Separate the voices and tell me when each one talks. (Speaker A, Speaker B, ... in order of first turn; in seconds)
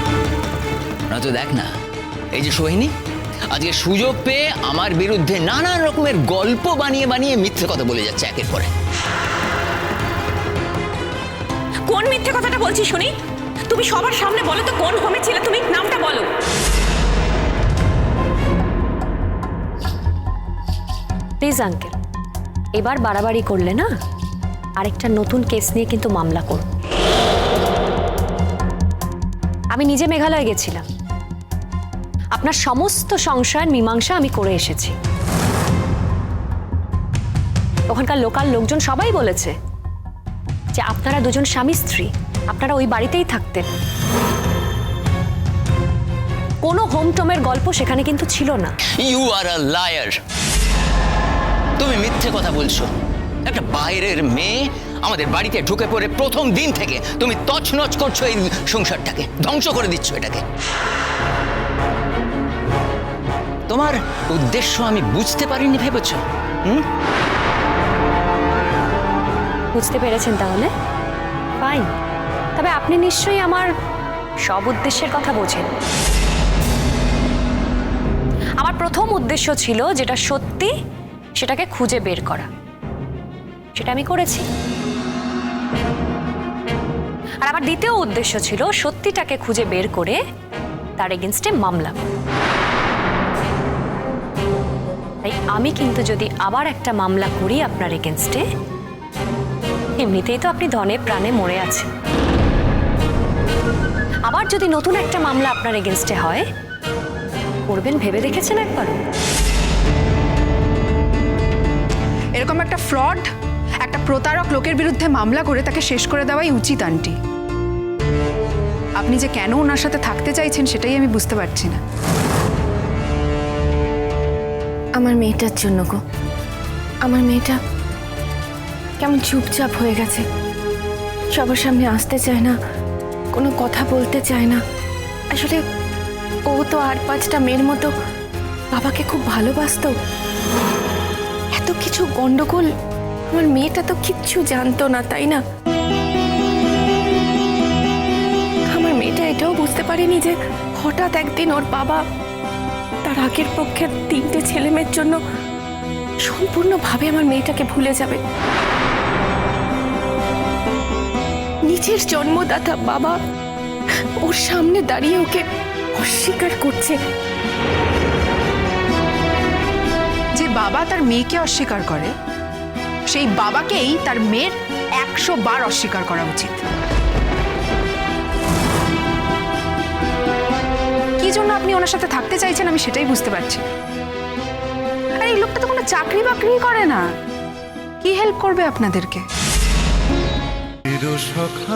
Speaker A: 1.1-1.7, 2.3-2.9, 3.5-8.7, 49.0-50.1, 51.8-52.9, 53.5-60.4, 63.7-66.8
Speaker B: 11.8-16.3
Speaker C: 21.4-21.9, 22.8-23.9, 24.8-26.7, 29.7-30.9, 32.4-35.0, 37.9-39.5, 40.8-43.7, 46.6-48.7, 69.7-70.7, 71.6-71.9, 72.6-73.7, 74.5-75.7, 78.6-80.7, 81.4-82.5, 83.8-84.5, 87.4-90.2, 91.0-92.0, 95.2-98.5, 100.0-101.9, 104.3-106.4, 107.7-109.0
Speaker D: 112.4-113.3, 113.8-117.2, 119.0-121.8, 170.4-172.1, 173.1-176.6, 181.2-183.6, 185.2-187.0, 188.0-189.2
Speaker E: 125.0-126.0, 127.0-127.6, 129.0-130.2, 131.3-132.6, 133.3-134.6, 135.3-135.6, 136.5-137.9, 138.7-139.9, 141.5-142.7, 143.3-145.4, 148.7-152.0, 153.0-155.2, 156.2-158.2, 161.7-163.2, 164.2-167.0